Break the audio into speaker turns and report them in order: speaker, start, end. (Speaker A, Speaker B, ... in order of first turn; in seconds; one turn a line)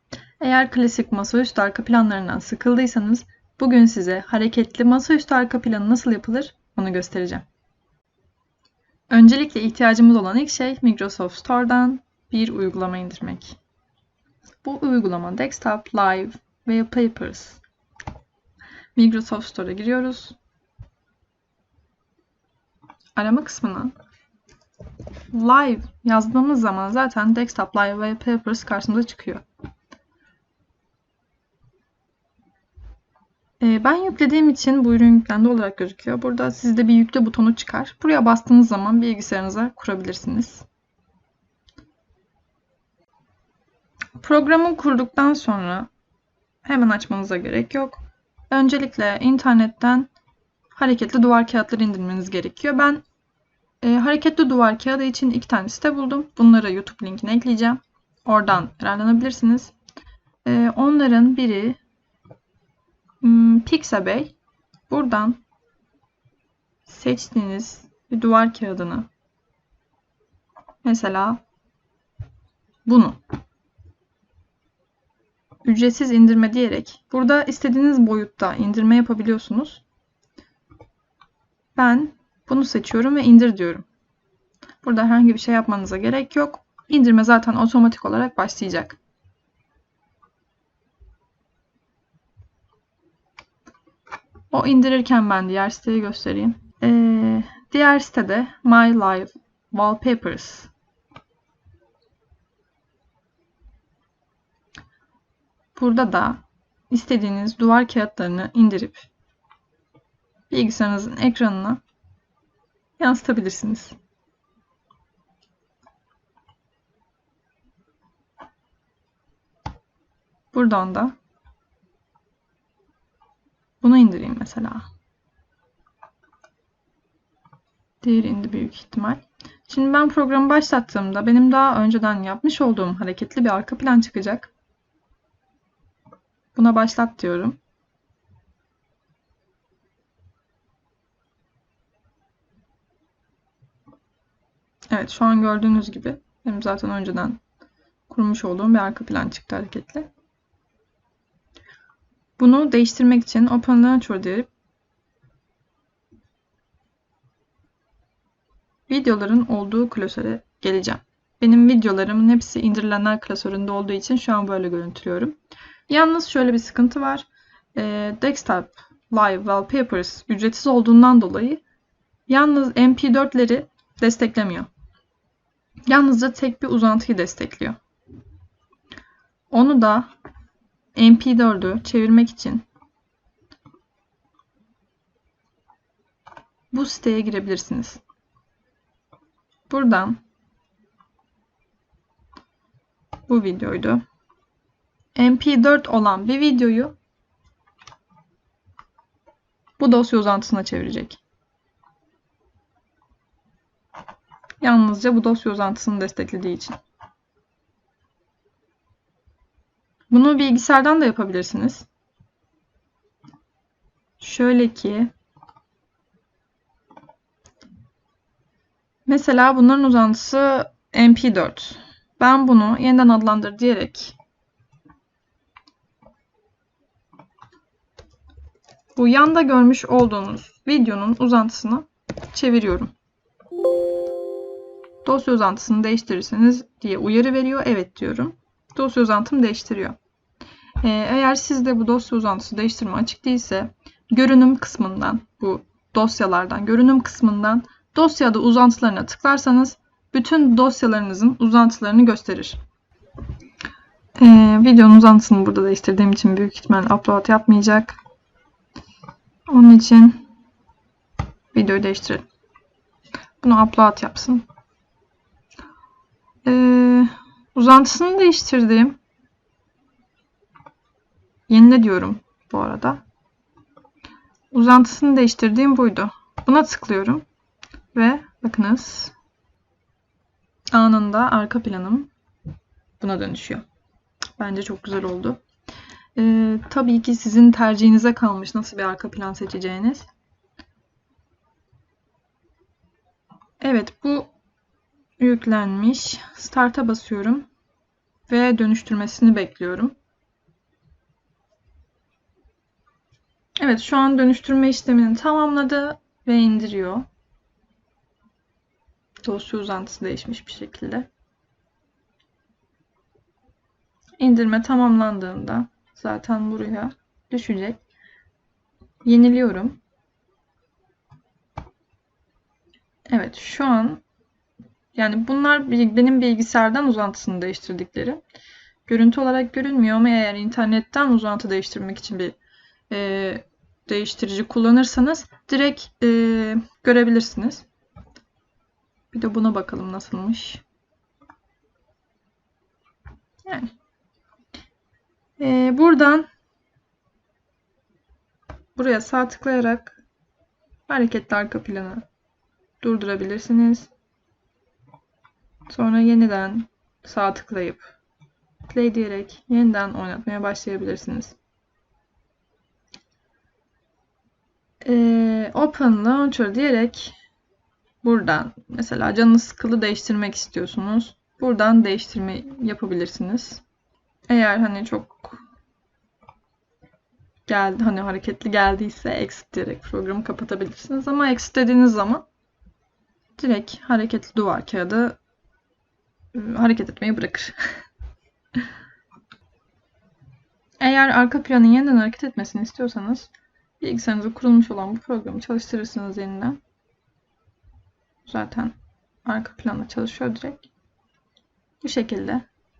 Speaker A: 0.4-7.5
Speaker A: 9.1-13.6
Speaker A: 14.6-17.6
Speaker A: 18.9-20.4
Speaker A: 23.2-23.9
Speaker A: 25.3-29.4
Speaker A: 33.6-40.7
Speaker A: 44.2-45.9
Speaker A: 46.6-48.0
Speaker A: 48.5-50.1
Speaker A: 50.7-53.0
Speaker A: 53.8-59.7
Speaker A: 60.5-61.8
Speaker A: 63.2-64.3
Speaker A: 64.9-65.4
Speaker A: 66.9-69.1
Speaker A: 70.8-71.4
Speaker A: 72.9-73.2
Speaker A: 75.7-79.8
Speaker A: 81.8-83.9
Speaker A: 84.8-89.0
Speaker A: 94.5-100.7
Speaker A: 105.8-109.1
Speaker A: 110.5-111.8
Speaker A: 113.0-114.0
Speaker A: 120.5-121.2
Speaker A: 123.8-124.9
Speaker A: 128.0-134.5
Speaker A: 136.6-137.6
Speaker A: 144.9-147.4
Speaker A: 148.1-150.1
Speaker A: 152.4-154.5
Speaker A: 158.9-165.4
Speaker A: 165.9-171.6
Speaker A: 172.3-174.7
Speaker A: 175.9-177.8
Speaker A: 179.5-180.1
Speaker A: 180.9-182.7
Speaker A: 186.7-188.0
Speaker A: 189.7-190.2
Speaker A: 193.3-194.0
Speaker A: 195.2-196.9
Speaker A: 199.8-201.2
Speaker A: 204.6-206.8
Speaker A: 210.1-211.9
Speaker A: 214.2-215.1
Speaker A: 219.1-224.2
Speaker A: 229.0-232.9
Speaker A: 235.0-240.0
Speaker A: 240.8-252.6
Speaker A: 254.2-258.0
Speaker A: 259.5-260.2
Speaker A: 261.5-262.2
Speaker A: 263.4-264.4
Speaker A: 266.4-269.0
Speaker A: 271.5-273.0
Speaker A: 274.5-277.2
Speaker A: 277.9-279.1
Speaker A: 280.7-282.1
Speaker A: 283.0-283.6
Speaker A: 284.4-285.4
Speaker A: 286.2-290.1
Speaker A: 293.6-294.3
Speaker A: 295.2-297.5
Speaker A: 298.3-299.9
Speaker A: 303.6-307.1
Speaker A: 309.2-311.1
Speaker A: 314.2-317.8
Speaker A: 319.1-319.8
Speaker A: 323.1-324.0
Speaker A: 324.9-328.2
Speaker A: 328.9-332.4
Speaker A: 332.9-337.6
Speaker A: 339.1-340.6
Speaker A: 343.4-343.7
Speaker A: 345.4-346.3
Speaker A: 348.8-350.0
Speaker A: 350.9-352.0
Speaker A: 352.8-353.9
Speaker A: 355.7-357.9
Speaker A: 358.7-361.4
Speaker A: 364.8-367.1
Speaker A: 368.0-373.6
Speaker A: 374.3-375.4
Speaker A: 377.5-382.2
Speaker A: 383.4-385.2
Speaker A: 386.3-387.6
Speaker A: 390.8-396.6
Speaker A: 398.3-398.7
Speaker A: 399.2-400.7
Speaker A: 401.8-402.5